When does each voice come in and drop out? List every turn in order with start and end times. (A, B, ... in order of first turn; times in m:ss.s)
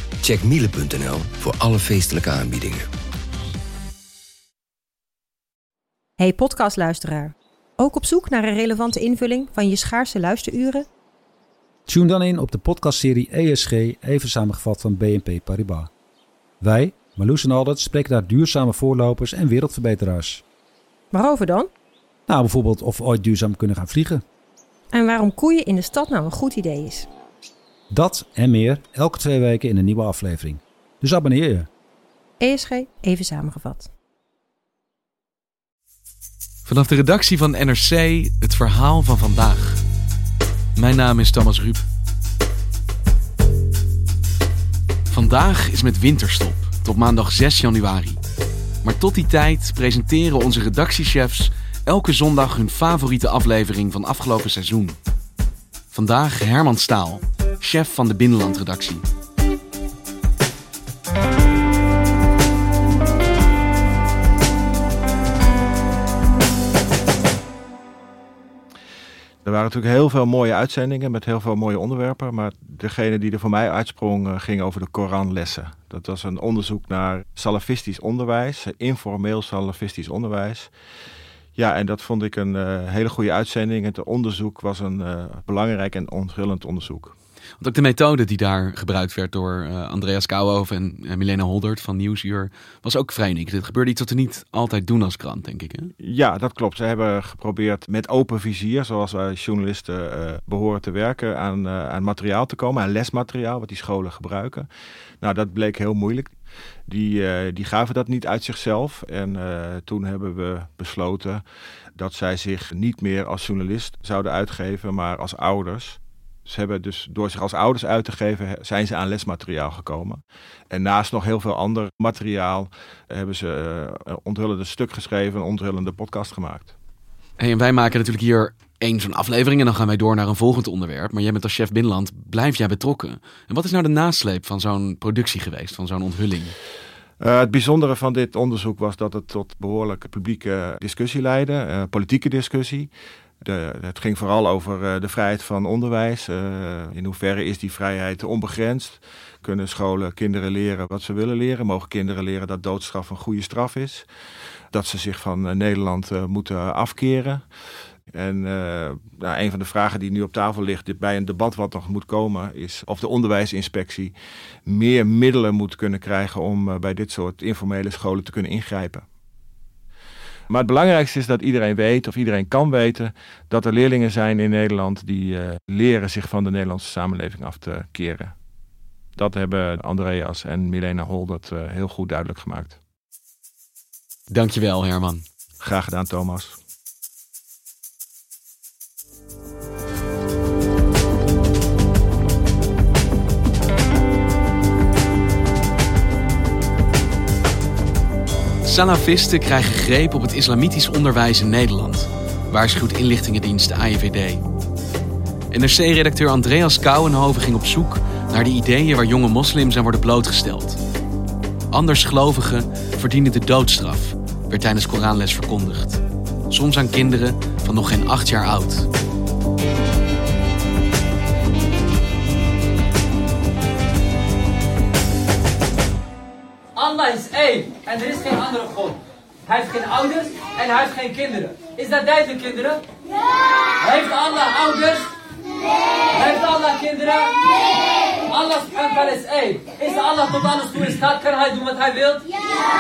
0:00.2-0:02.9 A
0:06.2-0:10.9 B
0:11.9-0:15.9 C
0:16.6-0:20.4 C
0:21.1-0:21.7 B
0:22.3-0:24.2 C
0:24.9-0:27.1 B
0:27.9-0:31.7 C
0:32.4-0:33.9 B
0:36.6-0:39.8 D
0:40.8-0:41.8 D
0:45.1-0:48.2 D
0:48.8-0:55.0 D
0:55.9-0:59.0 D
1:09.4-1:20.7 E
1:21.6-1:27.1 E
1:27.6-1:35.9 D
1:36.0-1:44.7 E
1:45.2-1:46.3 E
1:46.9-1:51.4 E
1:51.9-2:06.7 E
2:07.4-2:16.5 D
2:17.2-2:22.9 E
2:23.4-2:34.0 E
2:34.7-2:37.4 E
2:38.1-2:44.1 E
2:44.6-2:49.0 E
2:50.5-2:58.3 E
2:59.2-3:02.8 E
3:04.3-3:05.2 D
3:05.6-3:06.6 E
3:18.6-3:24.4 D
3:25.5-3:30.8 D
3:31.7-3:38.9 D
3:46.8-3:52.8 F
3:53.8-3:55.1 F
3:56.1-3:57.3 F
3:58.3-4:02.3 F